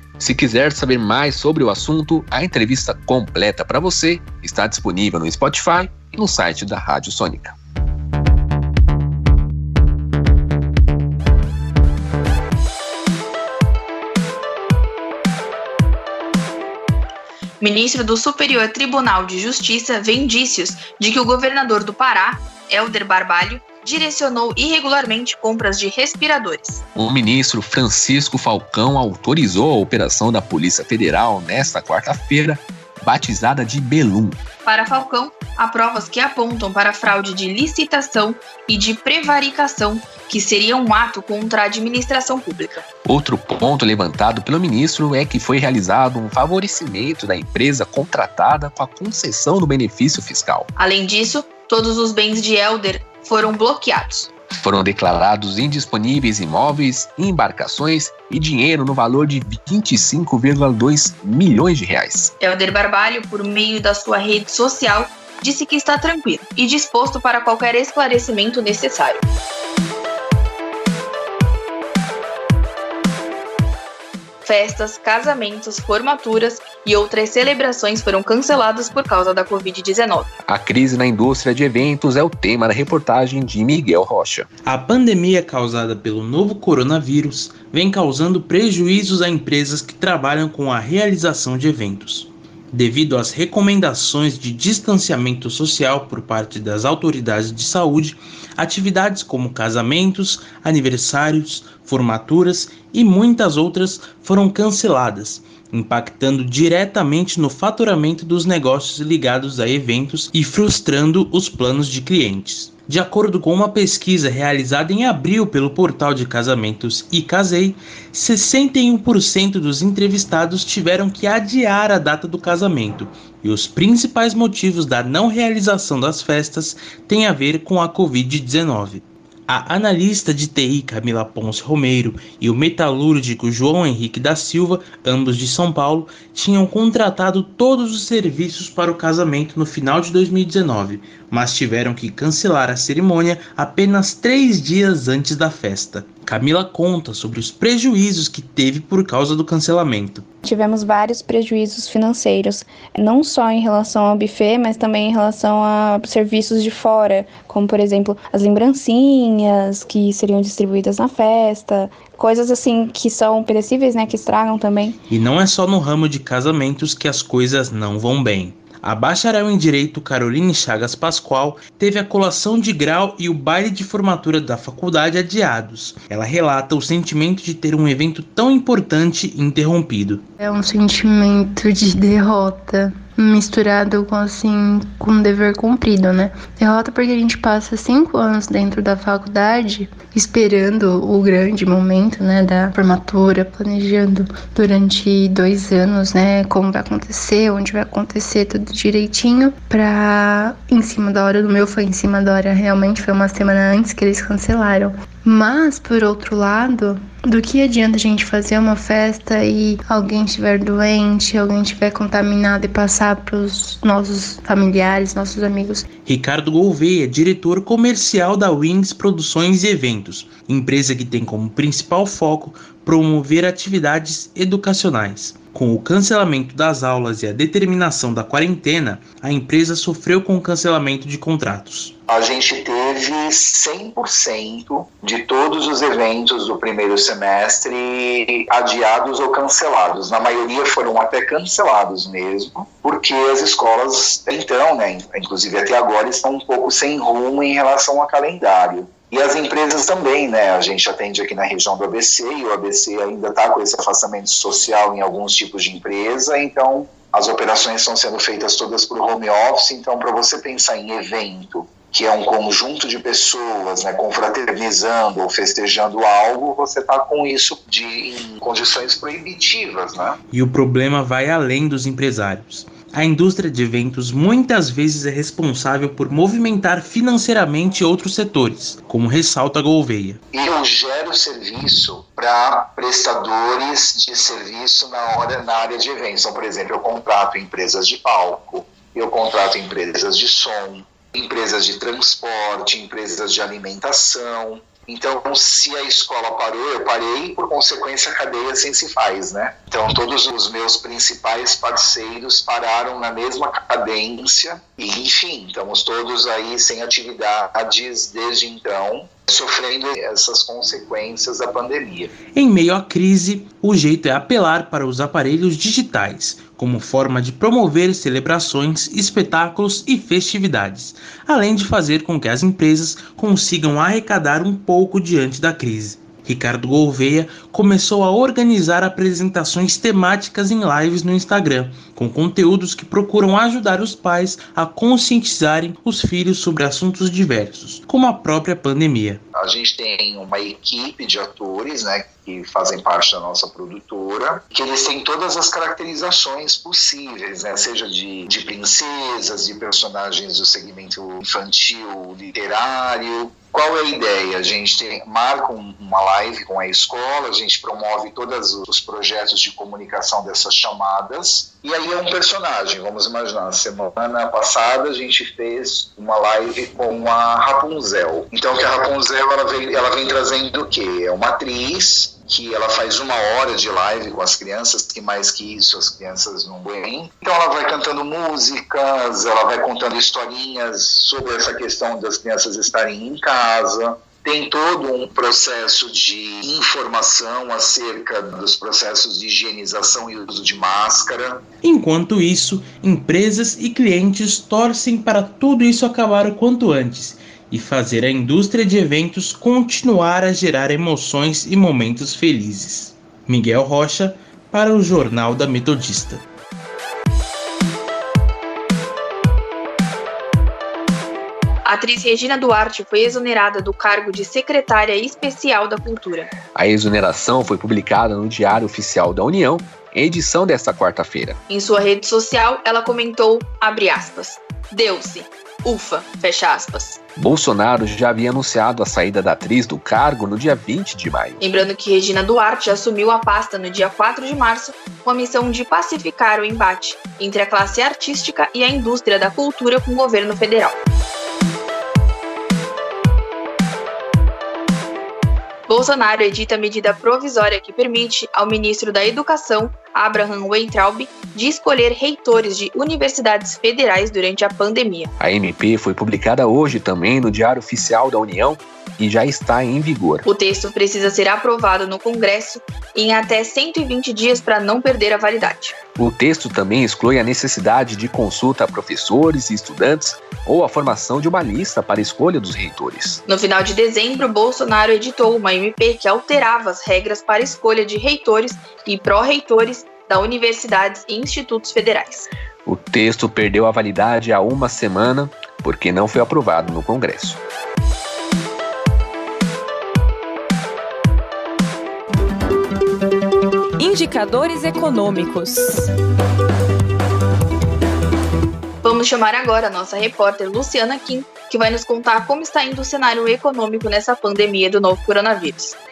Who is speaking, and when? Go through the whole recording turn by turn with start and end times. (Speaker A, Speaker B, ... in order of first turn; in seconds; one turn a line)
Speaker A: 0.2-7.5
Speaker B: 17.6-26.8
Speaker A: 26.9-34.4
Speaker B: 34.6-42.8
Speaker A: 43.0-50.7
Speaker B: 50.8-54.3
Speaker A: 54.5-62.3
Speaker B: 62.4-69.2
Speaker B: 74.4-80.3
Speaker A: 80.5-84.5
Speaker C: 84.7-150.2
Speaker D: 150.4-165.0
Speaker C: 165.1-180.2
Speaker E: 180.4-215.8
Speaker C: 216.1-231.9
Speaker F: 232.1-270.2
Speaker C: 270.3-280.2
Speaker F: 280.3-312.1
Speaker C: 312.3-339.2
Speaker F: 339.4-391.4
Speaker C: 391.6-406.2
Speaker B: 411.6-416.3
Speaker A: 416.5-421.4
Speaker B: 421.5-427.0
Speaker A: 427.2-431.4
Speaker B: 431.4-440.8
Speaker B: 445.7-455.1
Speaker A: 455.2-460.2
Speaker B: 460.2-465.7
Speaker A: 465.9-473.2
Speaker B: 473.2-482.3
Speaker A: 482.6-487.4
Speaker G: 493.8-495.9
Speaker B: 498.8-505.8